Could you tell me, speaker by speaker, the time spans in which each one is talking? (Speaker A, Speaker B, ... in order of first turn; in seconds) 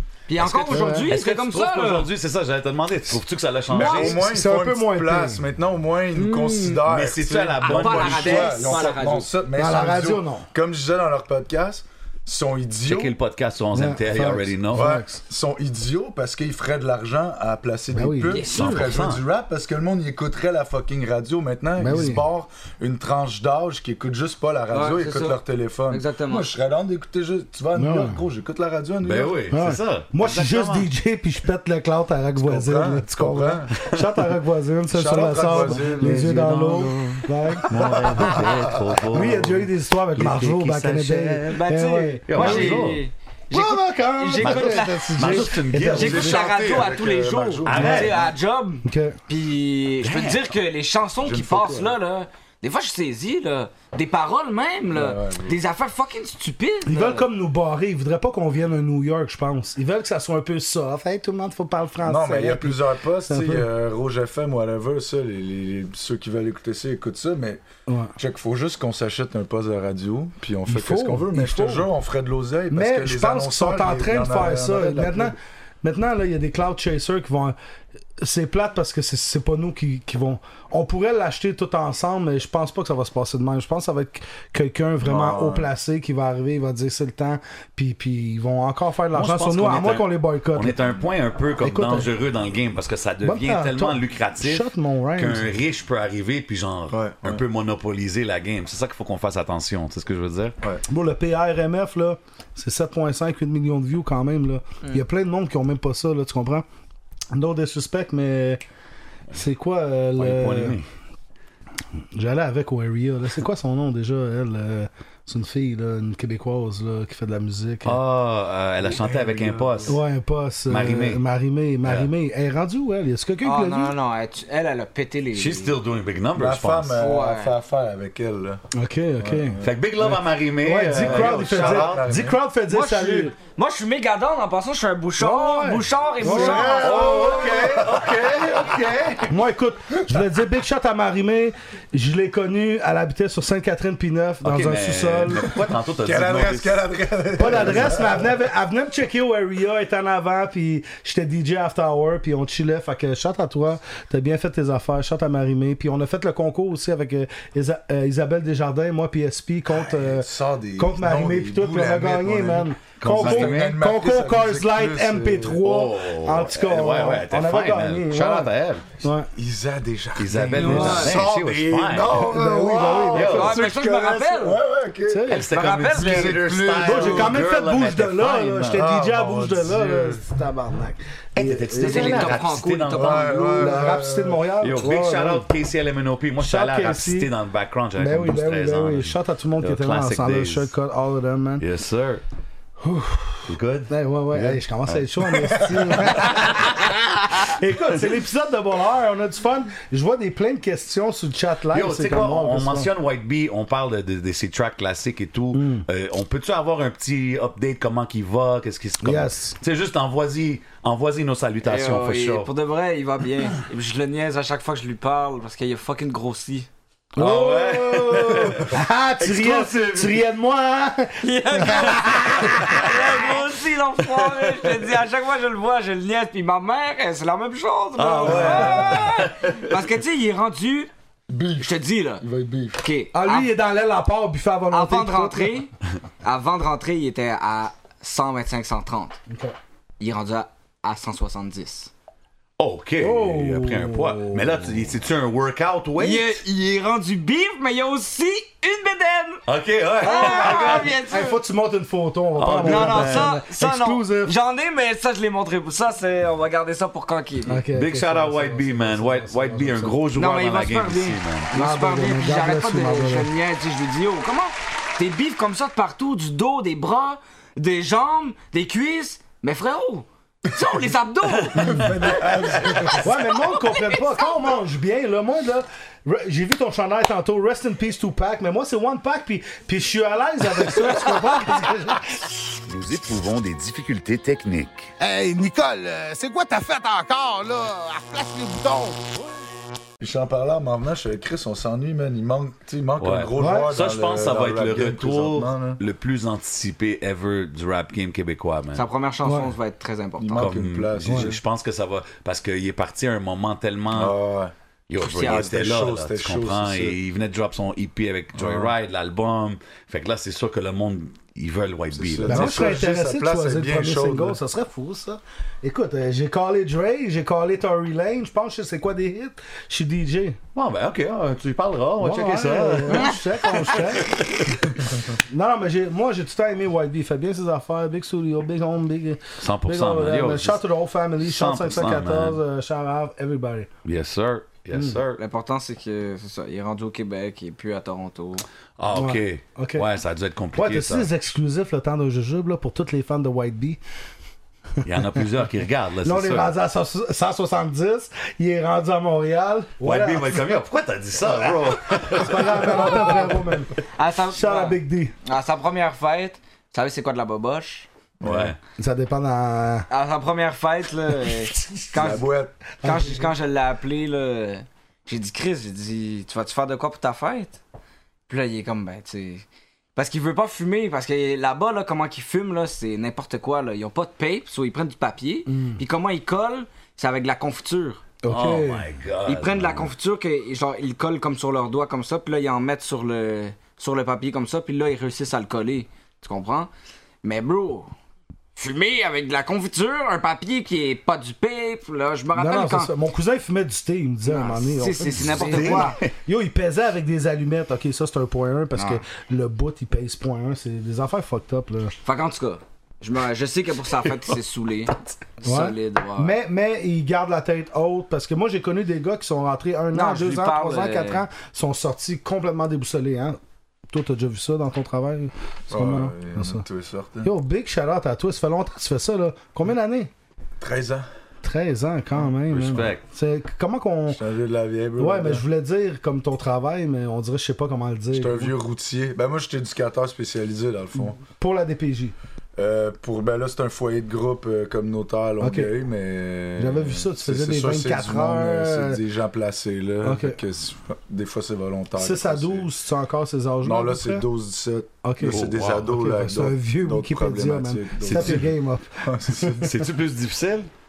Speaker A: 0.3-2.1, 3.7-4.1, 6.1-6.9, 7.6-9.3, 18.3-19.0, 24.7-26.5, 41.5-57.2, 123.4-125.8, 127.0-127.5, 132.7-137.2, 170.7-171.0, 173.2-174.6, 175.5-176.5, 181.8-183.8, 211.6-216.7, 221.2-230.9, 231.6-232.2, 232.8-233.5, 234.7-235.7, 236.2-239.2, 240.0-241.9, 246.0-249.4, 250.0-251.4, 252.5-257.6, 260.1-271.6, 273.2-274.5, 298.7-300.5, 305.0-305.5, 335.2-338.4, 353.9-357.9, 359.9-362.3, 362.8-367.6, 368.3-369.4, 369.9-378.0, 379.2-386.7, 387.2-387.9, 388.6-392.9, 394.2-396.0, 398.8-399.0, 402.0-406.3, 409.9-411.2
Speaker B: 0.4-4.2, 6.8-9.0, 12.9-14.9, 18.5-19.2, 29.0-30.9, 35.5-41.6, 42.3-43.0, 44.4-46.8, 47.6-48.3, 50.0-50.5, 89.1-100.6, 110.2-110.8, 117.8-120.0, 120.7-121.2, 121.8-122.1, 125.3-126.9, 129.6-132.0, 136.8-139.3, 144.4-146.8, 147.5-147.9, 163.0-163.8, 165.6-168.9, 170.2-172.2, 173.1-173.6, 175.3-178.8, 181.3-183.5, 184.6-190.7, 191.6-192.2, 193.5-196.7, 201.7-212.5, 217.2-220.2, 222.6-222.9, 228.0-229.8, 242.6-246.4, 249.5-250.9, 252.4-253.3, 257.6-261.5, 282.6-284.9, 293.0-298.8, 300.3-304.1, 304.9-312.8, 320.5-324.8, 329.4-330.6, 331.2-332.4, 333.8-335.2, 338.8-341.1, 344.8-346.5, 349.8-353.3, 358.2-358.6, 378.3-379.9, 395.2-396.1, 422.5-423.0, 445.3-445.9, 448.1-448.5, 449.6-450.7
Speaker C: 0.7-1.1, 3.8-5.4, 9.5-10.5, 13.7-15.2, 17.9-18.4, 21.8-22.2, 27.8-28.2, 29.5-38.4, 39.1-42.8, 43.5-46.3, 47.8-48.1, 48.8-49.2, 56.9-63.6, 67.9-68.1, 70.7-71.9, 72.7-77.5, 78.2-90.8, 91.6-92.1, 93.2-95.5, 100.9-106.6, 107.3-108.6, 109.3-110.8, 112.1-118.0, 119.9-123.9, 128.7-133.3, 135.2-137.1, 139.3-145.4, 147.4-168.5, 169.0-169.3, 170.6-171.2, 172.1-173.5, 175.1-175.4, 176.8-182.4, 183.6-185.4, 186.4-187.3, 188.0-191.6, 192.8-202.9, 205.5-205.8, 209.0-209.6, 217.2-222.9, 228.2-228.9, 233.1-235.7, 239.3-239.6, 243.0-244.7, 250.0-254.3, 257.5-260.0, 261.5-263.3, 273.0-282.1, 293.4-293.7, 299.2-299.5, 301.0-301.3, 312.2-320.4, 322.0-324.1, 325.2-333.7, 334.7-335.0, 338.9-339.8, 340.5-343.8, 346.0-350.6, 351.3-353.8, 354.3-355.1, 358.8-359.9, 362.8-363.2, 375.5-375.8, 378.2-378.8, 392.3-401.9, 405.4-413.4, 413.9-416.6, 417.2-420.1, 421.4-424.2, 425.0-428.5, 431.2-432.1, 435.4-435.7, 436.6-439.0, 440.0-440.4, 442.0-444.2, 445.0-449.6
Speaker D: 3.7-13.2, 14.7-29.5, 32.4-33.8, 34.9-36.6, 37.8-39.3, 45.8-48.2, 51.2-52.0, 54.9-55.6, 62.0-67.6, 68.2-75.4, 85.0-85.7, 96.9-97.4, 118.8-120.0, 126.3-128.6, 129.2-130.2, 131.0-132.4, 136.2-139.2, 145.4-148.4, 159.7-165.6, 169.3-177.4, 178.7-180.2, 182.9-184.4, 195.5-196.1, 228.2-229.1, 231.3-232.8, 271.5-273.1, 290.0-295.8, 300.2-301.4, 303.9-304.5, 305.1-307.0, 308.3-308.7, 311.9-314.4, 358.2-358.6, 361.9-362.6, 415.7-417.3, 420.6-421.1, 424.1-425.4, 428.1-431.2, 432.6-442.7, 443.6-448.5, 449.0-449.8
Speaker E: 285.0-289.1